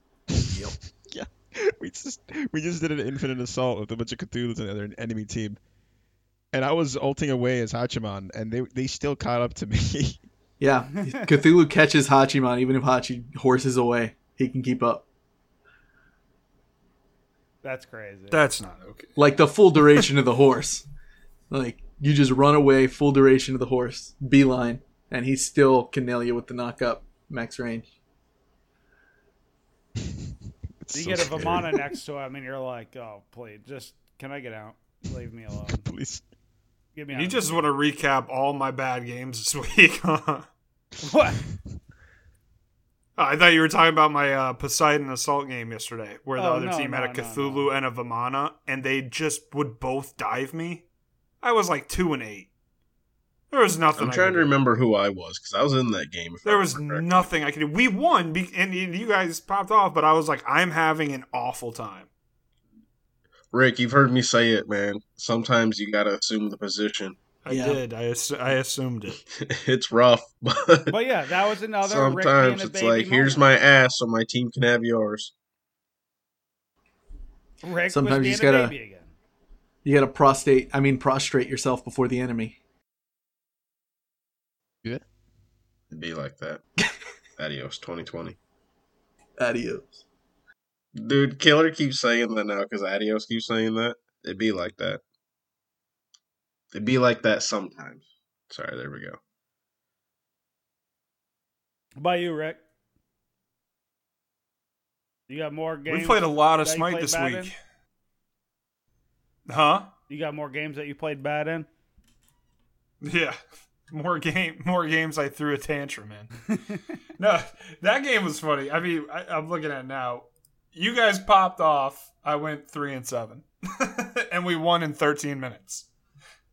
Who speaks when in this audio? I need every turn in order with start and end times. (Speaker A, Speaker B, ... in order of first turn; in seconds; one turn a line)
Speaker A: 0.3-5.6
Speaker B: 0.5-0.7
Speaker A: 6.5-10.2
Speaker B: 10.6-15.0
Speaker C: 17.6-18.4
Speaker D: 18.3-19.1
Speaker B: 19.2-20.8
Speaker B: 21.5-27.9
Speaker A: 30.8-31.9
Speaker C: 30.9-35.8
Speaker A: 35.6-36.2
Speaker C: 37.0-37.5
Speaker D: 37.1-40.5
Speaker C: 41.0-41.4
Speaker D: 43.2-50.8
Speaker C: 46.4-47.7
Speaker D: 51.4-52.5
Speaker D: 53.5-54.5
Speaker E: 54.0-57.2
Speaker D: 56.4-62.1
Speaker E: 63.5-67.2
Speaker D: 67.4-69.2
Speaker B: 67.5-67.8
Speaker E: 69.3-70.9
Speaker C: 70.9-73.4
Speaker E: 71.8-75.3
Speaker C: 77.6-79.1
Speaker B: 77.9-78.7
Speaker B: 79.8-82.6
Speaker E: 85.9-86.6
Speaker E: 87.4-88.4
Speaker B: 89.4-90.0
Speaker E: 90.9-95.0
Speaker E: 96.7-99.2
Speaker C: 102.0-102.6
Speaker C: 105.3-107.5
Speaker D: 105.9-107.5
Speaker D: 109.5-109.9
Speaker C: 110.1-111.7
Speaker D: 113.0-113.4
Speaker D: 113.9-116.3
Speaker D: 117.2-125.8